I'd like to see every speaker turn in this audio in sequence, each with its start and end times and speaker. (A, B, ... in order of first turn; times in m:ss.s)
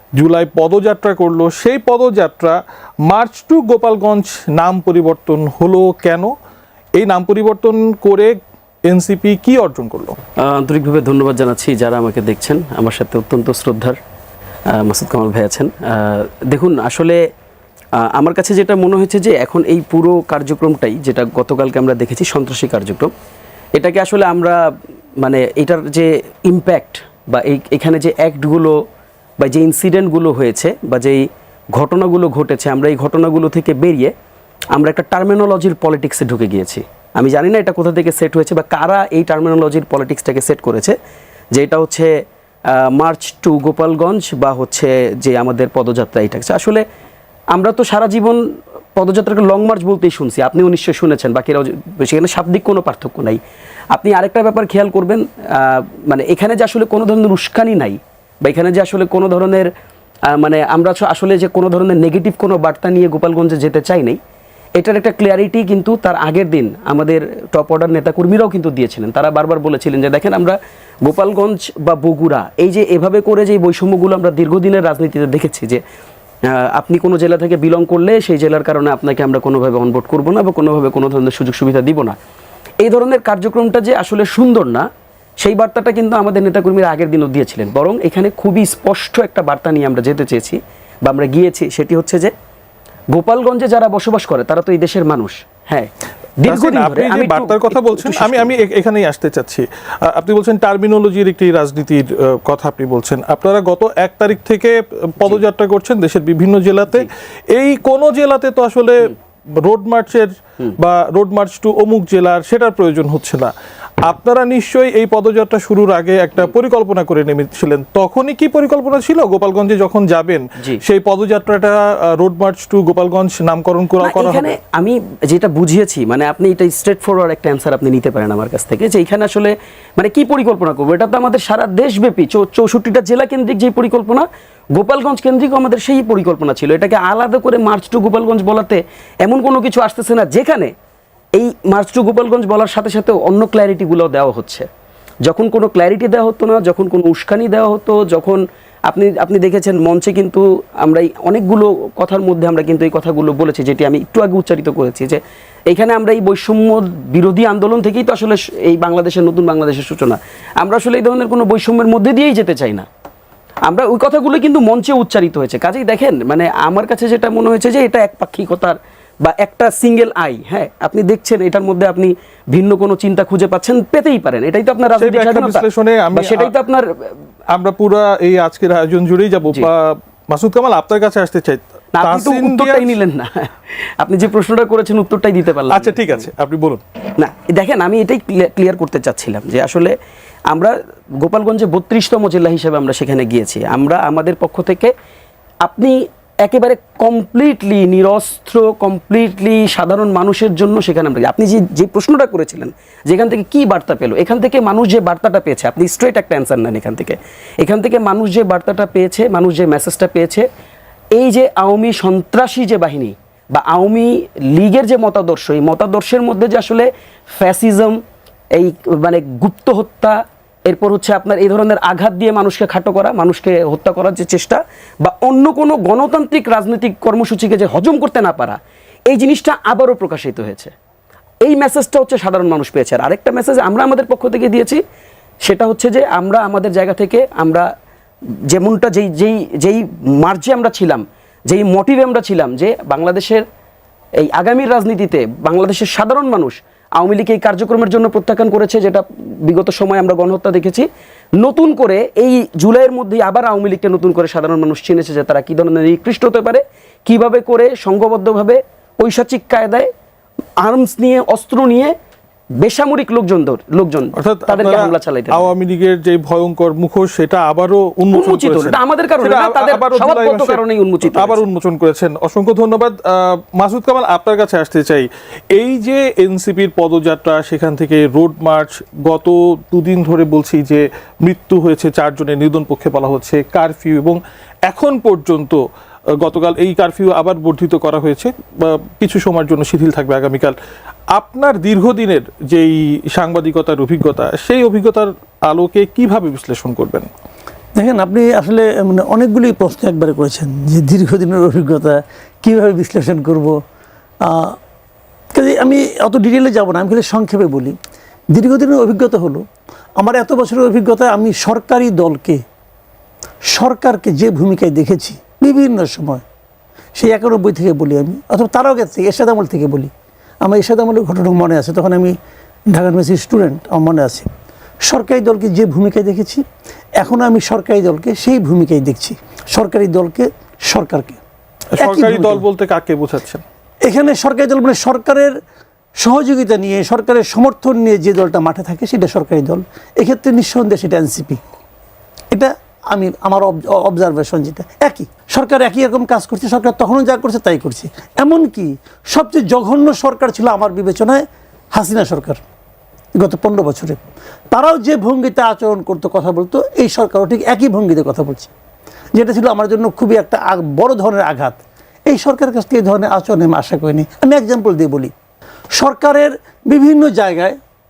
0:00.2-0:06.3 A
0:07.0-0:10.2 A
0:10.4-0:14.0 B
0:14.7-0:17.2 B
0:18.0-0:23.1 B
0:23.8-0:24.6 B
0:25.2-0:28.7 B
0:29.4-0:34.1 B
0:34.7-0:41.0 B
0:41.5-0:42.1 B
0:42.7-0:46.8 B
0:47.5-0:48.4 B
0:49.0-0:53.4 B
0:53.9-0:59.7 B
1:00.3-1:04.2 B
1:04.8-1:15.8 B
1:16.5-1:22.2 B
1:22.8-1:24.8 B
1:25.4-1:32.3 B
1:33.1-1:35.9 B
1:36.4-1:38.5 B
1:36.4-2:04.6 A
2:04.0-2:20.7 B
2:21.3-2:24.7 B
2:25.2-2:42.8 B
2:43.6-2:57.1 B
2:54.9-2:56.5 A
2:57.5-3:03.0 A
3:02.0-3:06.3 B
3:05.7-3:06.8 A
3:07.2-3:09.9 B
3:10.5-3:14.9 B
3:15.6-3:30.4 B
3:31.1-3:38.0 B
3:38.5-3:48.6 B
3:49.1-3:50.7 B
3:51.4-3:54.8 B
3:55.4-3:57.6 B
3:58.5-4:03.4 B
4:04.2-4:10.9 B
4:11.4-4:19.9 B
4:20.6-4:21.9 B
4:22.6-4:25.5 B
4:24.1-4:45.6 A
4:28.1-4:31.4 B
4:46.2-4:50.6 A
4:51.1-4:57.1 A
4:57.8-5:03.5 C
5:04.2-5:04.6 C
5:05.3-5:07.8 C
5:08.3-5:09.4 C
5:10.0-5:12.4 C
5:13.5-5:16.2 C
5:17.0-5:19.9 C
5:20.4-5:22.1 C
5:22.7-5:24.3 C
5:24.8-5:26.4 C
5:27.0-5:31.2 C
5:31.7-5:33.4 A
5:31.8-5:32.4 C
5:33.8-5:35.3 C
5:36.0-5:41.4 C
5:42.3-5:51.2 C
5:51.7-5:52.4 C
5:53.2-5:58.5 C
5:59.1-6:05.1 C
6:05.8-6:07.6 C